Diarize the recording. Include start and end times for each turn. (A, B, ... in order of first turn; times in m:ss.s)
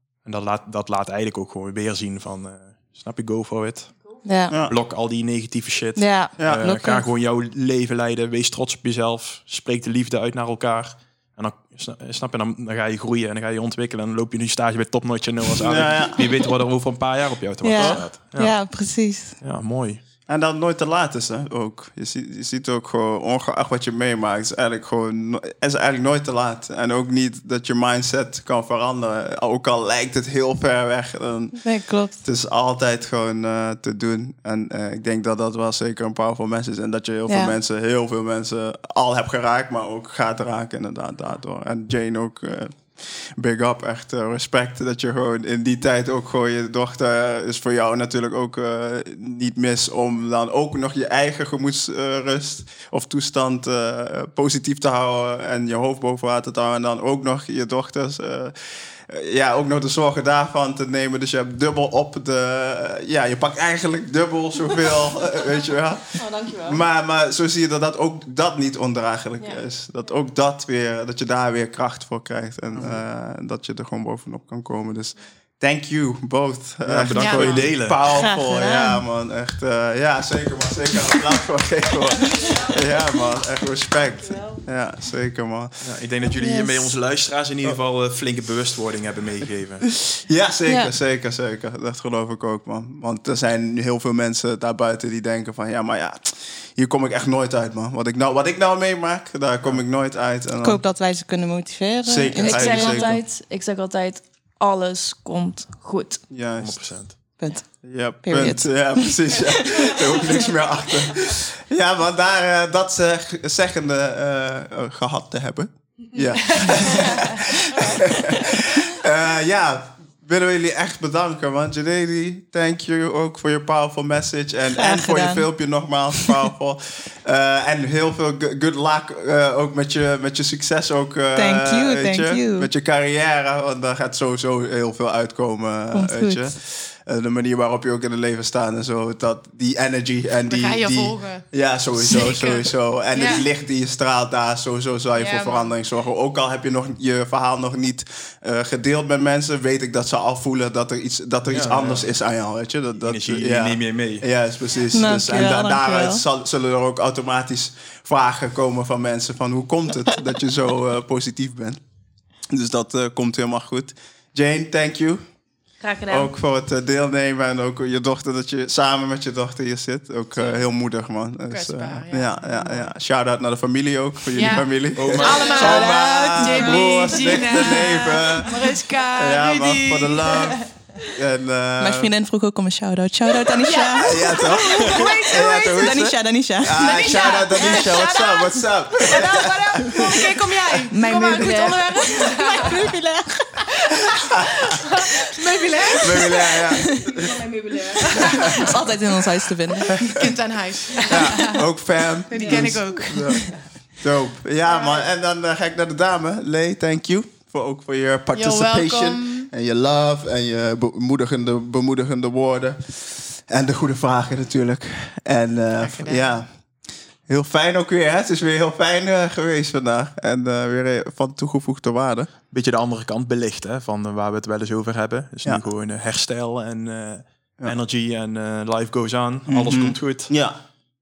0:00.2-0:20.0 A
0:04.2-0:04.6 B
0:04.5-0:04.8 C
0:06.0-0:07.1 B
0:06.4-0:06.7 C
0:15.6-0:16.2 C
0:17.6-0:19.4 B
0:20.3-1:25.8 C
0:31.6-0:32.2 B
0:37.3-0:37.6 B
1:06.2-1:06.8 D
1:12.7-1:13.0 A
1:16.8-1:18.1 A
1:17.1-1:17.7 E
1:18.1-1:19.0 B
1:25.8-1:30.1 A
1:26.4-1:27.0 B
1:30.2-1:40.8 C
1:30.7-1:30.9 B
1:40.6-1:43.2 B
1:42.0-1:43.2 C
1:42.4-1:46.2 D
1:46.3-2:41.8 C
1:46.6-1:47.3 A
1:47.4-1:49.5 B
2:04.8-2:05.5 B
2:11.4-2:12.7 B
2:15.9-2:16.4 B
2:20.4-2:23.5 E
2:25.2-2:25.7 E
2:31.5-2:32.1 A
2:33.0-2:34.3 A
2:34.9-2:36.2 B
2:42.5-2:45.4 C
2:45.8-2:46.3 D
2:46.1-3:02.1 C
2:51.5-2:52.9 E
2:54.3-3:00.7 E
2:55.0-2:56.0 A
2:55.2-2:57.1 B
2:56.5-2:57.0 D
3:01.8-3:07.8 B
3:03.6-3:05.1 E
3:04.0-3:10.4 C
3:04.8-3:05.3 D
3:06.8-3:08.4 E
3:07.2-3:10.1 D
3:09.0-3:12.7 E
3:10.9-3:13.7 B
3:11.0-3:12.9 D
3:15.4-3:16.4 E
3:16.0-3:17.3 C
3:16.9-3:18.8 D
3:18.2-3:20.3 B
3:20.0-3:21.6 E
3:21.1-3:42.3 C
3:22.3-3:23.6 E
3:22.4-3:22.7 D
3:28.3-3:29.5 E
3:35.8-3:36.4 E
3:42.5-3:50.5 A
3:49.5-3:50.6 C